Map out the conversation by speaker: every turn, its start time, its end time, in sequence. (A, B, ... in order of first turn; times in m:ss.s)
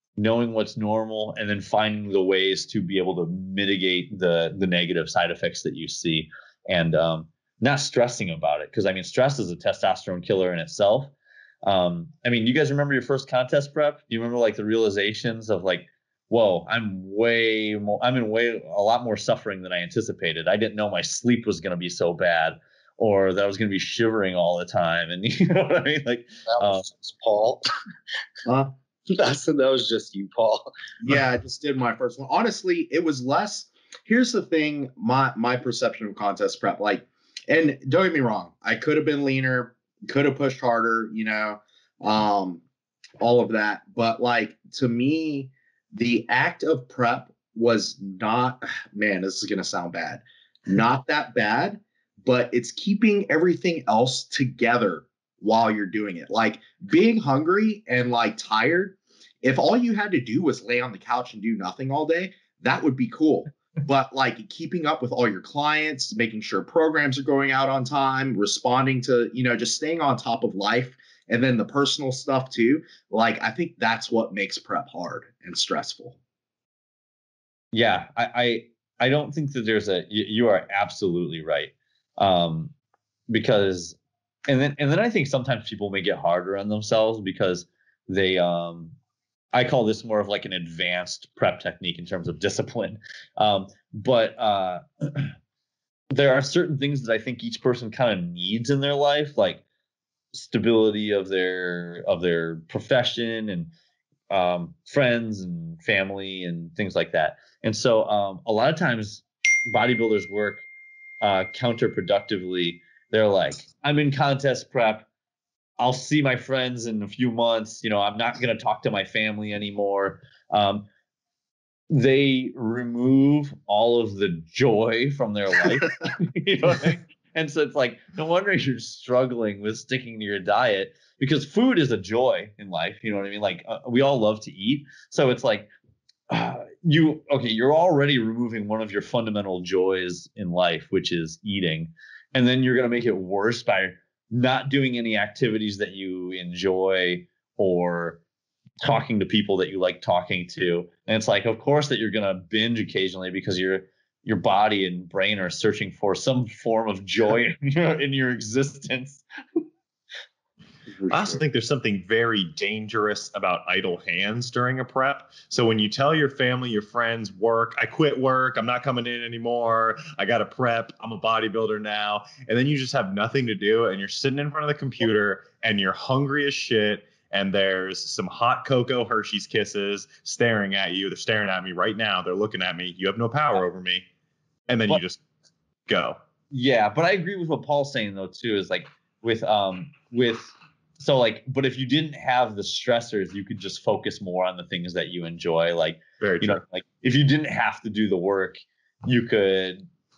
0:00.2-0:11.1 A
0:11.6-0:26.9 A
0:26.5-0:27.7 B
0:28.5-0:28.7 C
0:29.1-0:30.7 B
0:31.0-0:42.6 C
0:43.2-1:16.2 C
1:17.7-1:22.7 A
1:23.3-1:24.0 A
1:24.5-1:29.0 A
1:29.5-1:35.3 A
1:36.1-1:39.6 A
1:40.3-1:43.7 A
1:44.3-1:50.6 A
1:51.2-1:55.1 A
1:55.8-2:00.9 A
2:01.9-2:15.7 A
2:16.3-2:28.2 A
2:28.8-2:39.6 A
2:41.0-2:41.4 C
2:41.1-3:04.1 D
3:04.7-3:05.2 D
3:05.9-3:06.2 D
3:06.5-3:19.8 A
3:16.2-3:16.6 D